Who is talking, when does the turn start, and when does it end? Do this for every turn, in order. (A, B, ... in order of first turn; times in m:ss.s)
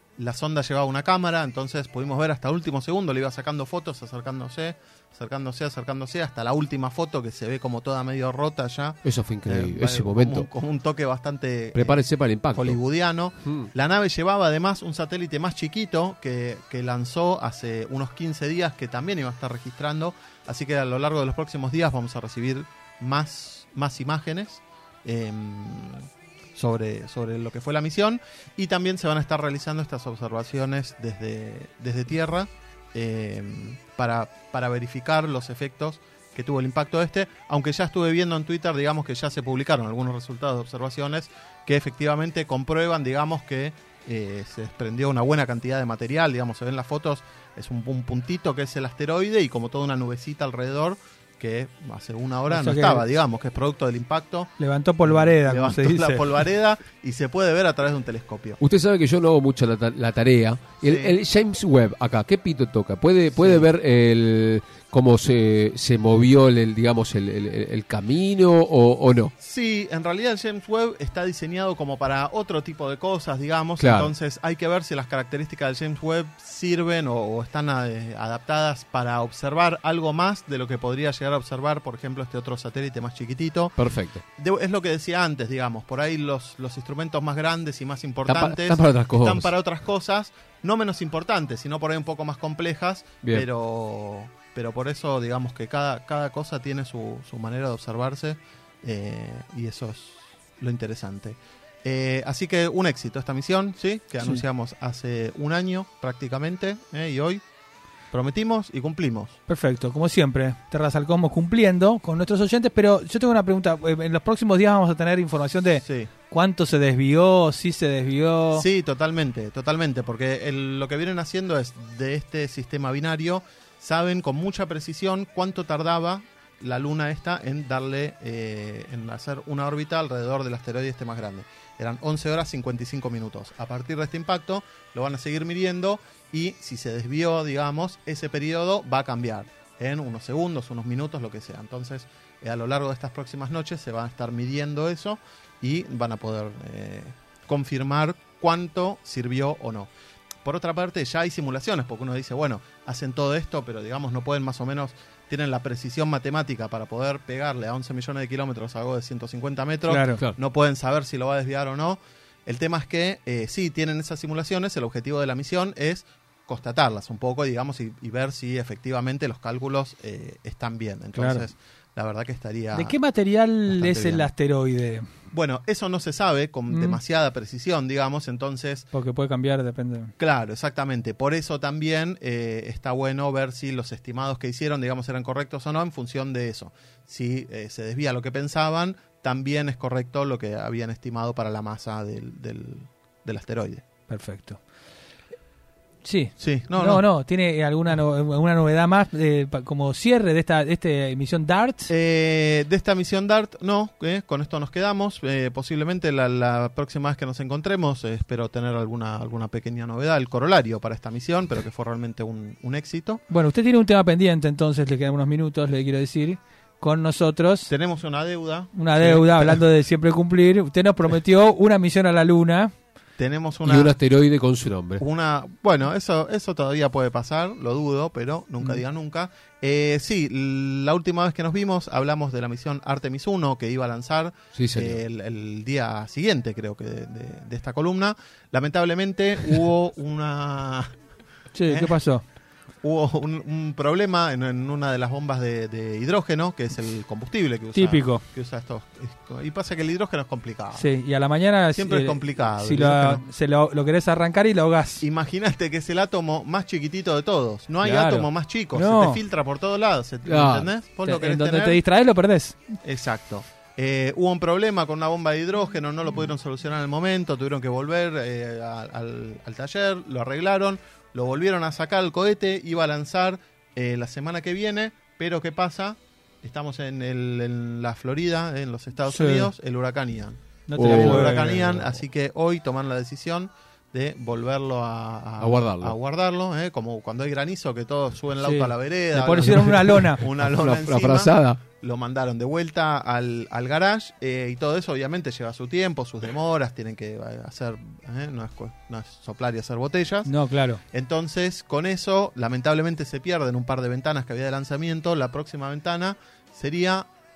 0:00.2-0:58.6 A
0:09.0-0:10.5 B
0:11.8-0:12.8 B
0:52.5-0:53.0 C
0:54.6-0:56.3 C
0:58.6-1:09.3 B
1:00.8-1:01.2 A
1:03.4-1:03.7 A
1:09.4-1:23.8 A
1:13.8-1:14.1 B
1:23.8-1:24.2 B
1:24.4-1:47.4 A
1:28.3-1:29.5 B
1:48.1-1:49.4 A
1:49.5-1:58.6 C
1:55.8-1:56.1 A
1:58.5-2:29.9 A
2:30.4-2:53.0 A
2:39.9-2:40.2 C
2:51.2-2:51.5 C
2:52.7-2:55.0 C
2:53.7-2:54.3 A
2:55.3-2:58.9 A
2:56.7-2:57.0 C
2:58.9-3:00.1 C
3:00.2-3:13.8 A
3:14.1-3:14.6 C
3:16.0-3:21.9 C
3:16.4-3:17.1 A
3:21.9-3:33.2 A
3:33.3-3:37.7 C
3:37.7-3:39.6 A
3:38.7-3:42.7 C
3:43.2-3:44.0 A
3:43.6-3:45.0 B
3:45.0-4:01.0 A
3:54.6-3:55.0 B
4:01.5-4:02.2 C
4:01.7-4:02.0 A
4:02.8-4:10.9 A
4:07.7-4:08.2 C
4:10.7-4:15.0 C
4:11.7-4:13.2 A
4:15.0-4:21.8 A
4:17.8-4:19.2 C
4:20.3-4:20.7 B
4:21.0-4:22.6 C
4:22.8-5:00.3 A
4:39.1-4:39.5 C
4:40.7-4:41.8 C
4:40.8-4:41.6 B
4:45.4-4:46.0 B
4:48.4-4:50.2 C
4:50.3-4:51.6 B
5:00.2-5:00.8 C
5:00.9-5:07.1 A